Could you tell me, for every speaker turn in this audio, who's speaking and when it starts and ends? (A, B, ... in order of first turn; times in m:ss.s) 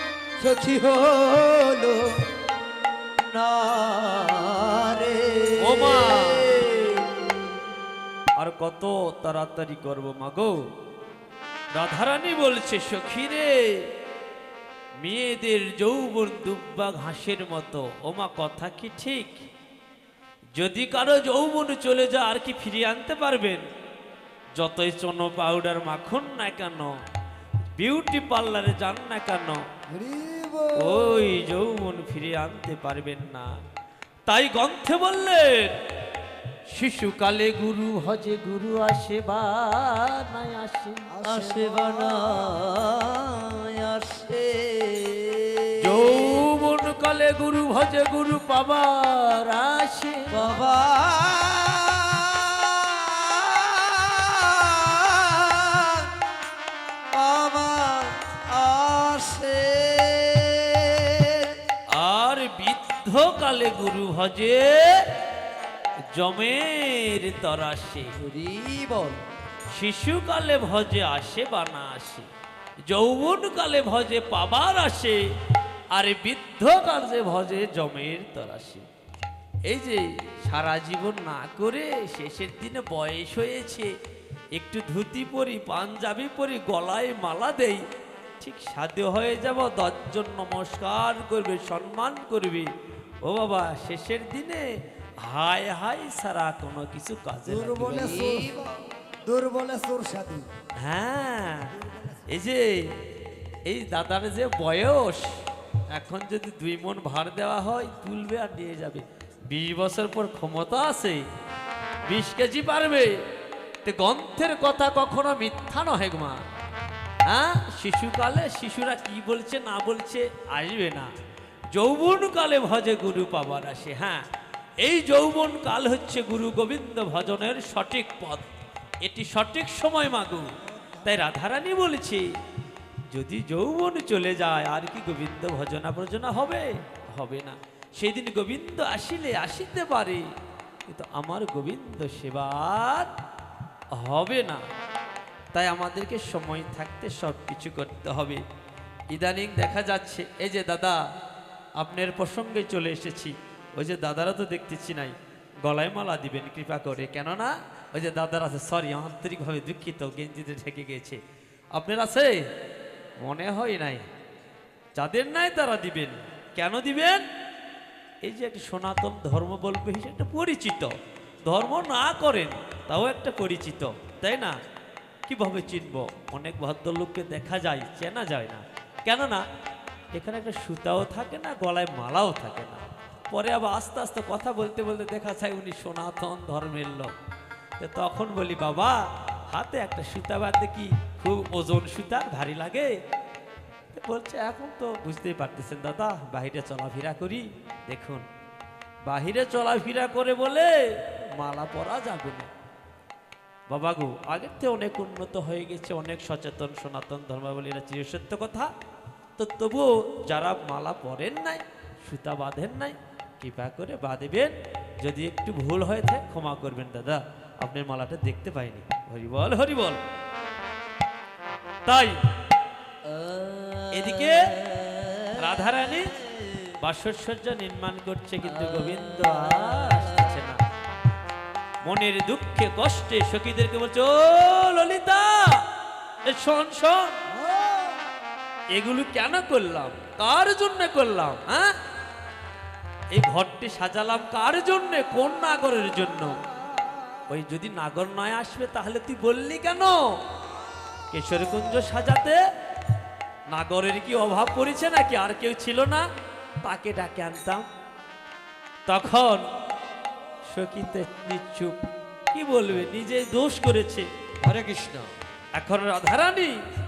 0:00.4-0:02.3 A
0:03.2-0:07.3 A
0:05.6-0:06.6 B
0:08.4-0:10.6 B
0:11.8-0:13.9 B
0:15.0-0:19.4 B
0:20.6-0:23.6 B
0:24.6-0:27.0 B
0:27.8-0:29.6 B
0:29.9-0:31.4 C
0:30.8-0:33.5 B
0:34.3-0:35.8 B
0:36.7-0:41.1 B
0:41.1-0:42.8 C
0:41.2-0:46.4 A
0:45.8-0:50.4 B
0:50.3-0:56.1 A
0:57.1-1:01.6 A
1:01.9-1:05.1 B
1:06.1-1:08.2 B
1:08.2-1:09.2 A
1:09.8-1:12.3 B
1:12.9-1:15.2 B
1:15.9-1:18.9 B
1:19.7-1:23.9 B
1:24.6-1:27.8 B
1:28.4-1:32.7 B
1:33.2-1:34.7 B
1:35.2-1:38.4 B
1:37.5-1:38.7 C
1:37.9-1:38.7 A
1:39.3-1:40.5 C
1:40.8-1:41.8 B
1:42.3-1:42.9 B
1:43.7-1:45.3 B
1:45.9-1:51.2 B
1:52.1-1:53.2 B
1:53.8-1:56.4 B
1:57.3-2:01.1 B
2:01.7-2:04.2 B
2:04.8-2:08.5 B
2:09.0-2:12.3 B
2:13.1-2:20.3 B
2:20.9-2:23.1 B
2:23.9-2:24.6 B
2:25.5-2:28.4 B
2:29.1-2:31.0 B
2:31.8-2:41.2 B
2:41.8-2:42.4 B
2:43.2-2:44.0 B
2:45.0-2:47.2 B
2:48.2-2:50.9 B
2:51.5-2:54.6 B
2:55.3-2:59.4 B
3:00.1-3:07.1 B
3:07.8-3:13.0 B
3:13.9-3:18.3 B
3:19.1-3:22.5 B
3:23.7-3:28.7 B
3:29.4-3:40.0 B
3:41.9-3:42.2 B
3:43.0-3:45.6 A
3:43.9-3:44.5 B
3:45.4-3:46.2 B
3:46.8-3:50.6 B
3:48.5-3:50.3 A
3:51.8-3:55.6 B
3:56.3-3:57.2 B
3:57.3-3:58.1 C
3:58.8-4:01.8 B
4:03.1-4:06.4 B
4:07.3-4:10.1 B
4:11.1-4:12.4 B
4:13.5-4:16.1 B
4:16.6-4:17.7 B
4:18.9-4:19.5 B
4:20.5-4:21.8 B
4:22.3-4:25.1 B
4:25.6-4:26.6 B